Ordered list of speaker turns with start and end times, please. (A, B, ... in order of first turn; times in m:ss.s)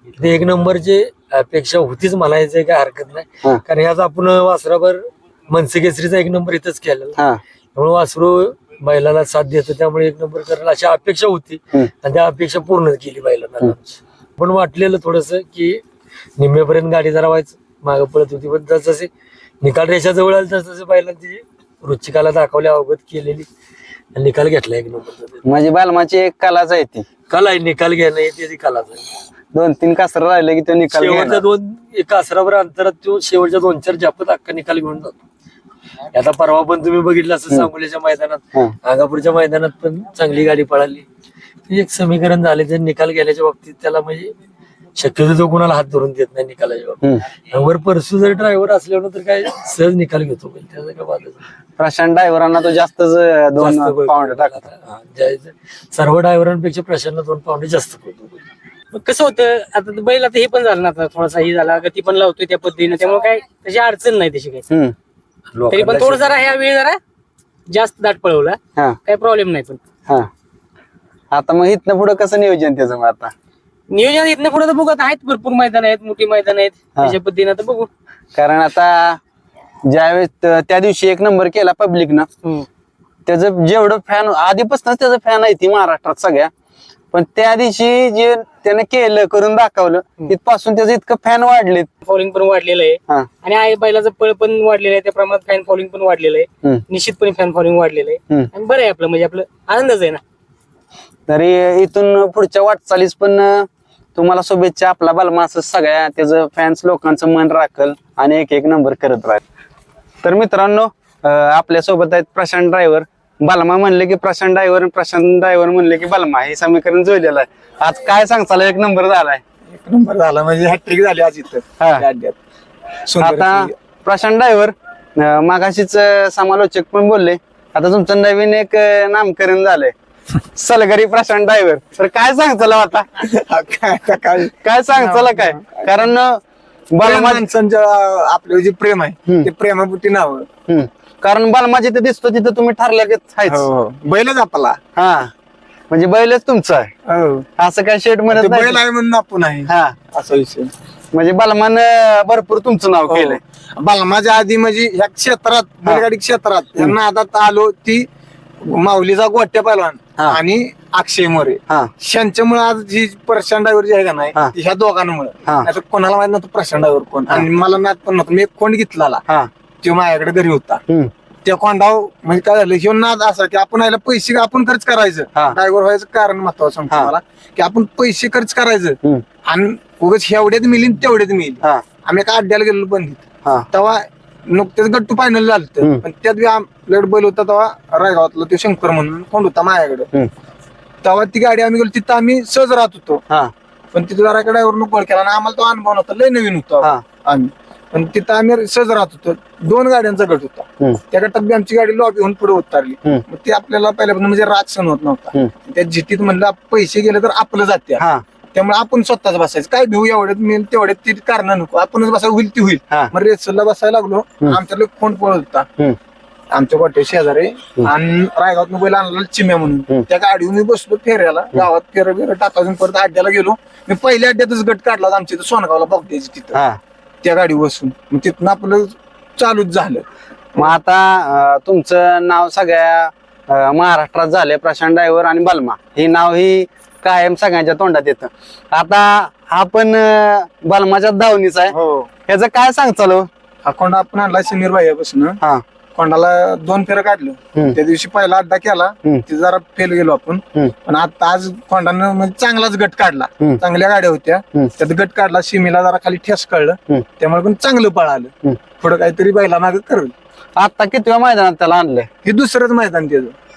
0:00.2-0:07.2 A
0:07.8-0:15.8 A
0:16.4-0:19.1 A
0:19.6-0:23.5 A
0:24.1-0:25.4 A
0:25.4-0:27.1 B
0:27.3-0:29.1 A
0:29.5-0:31.4 B
0:30.9-0:35.2 A
0:36.1-0:41.1 A
0:41.7-0:44.4 A
0:45.0-0:51.4 A
0:51.8-0:54.6 B
0:53.6-0:58.4 A
0:58.9-1:04.7 C
1:05.5-1:06.5 A
1:05.7-1:07.0 C
1:07.7-1:09.8 C
1:11.3-1:13.3 B
1:13.9-1:17.9 C
1:18.4-1:19.2 B
1:19.9-1:22.3 B
1:23.3-1:26.5 B
1:27.1-1:31.9 B
1:32.0-1:40.2 C
1:41.3-1:49.4 B
1:50.2-1:59.4 B
1:59.7-2:02.4 D
2:03.1-2:03.7 D
2:03.2-2:09.9 B
2:10.5-2:13.1 B
2:13.2-2:16.1 D
2:14.6-2:17.4 B
2:17.0-2:20.5 D
2:20.7-2:23.6 B
2:23.5-2:24.8 D
2:25.0-2:25.3 B
2:25.9-2:26.9 B
2:27.1-2:27.5 D
2:27.6-2:28.8 B
2:28.3-2:30.7 D
2:29.7-2:30.0 B
2:31.1-2:33.4 B
2:33.1-2:38.1 D
2:38.6-2:49.2 D
2:49.8-2:50.8 D
2:51.4-3:10.1 D
3:11.0-3:13.2 D
3:13.9-3:28.0 D
3:28.5-3:35.7 D
3:36.5-3:46.6 D
3:47.2-3:50.7 D
3:50.6-4:01.7 B
4:01.7-4:02.1 D
4:02.3-4:03.3 B
4:03.6-4:05.4 D
4:06.0-4:20.1 D
4:20.6-4:22.1 B
4:22.2-4:23.4 D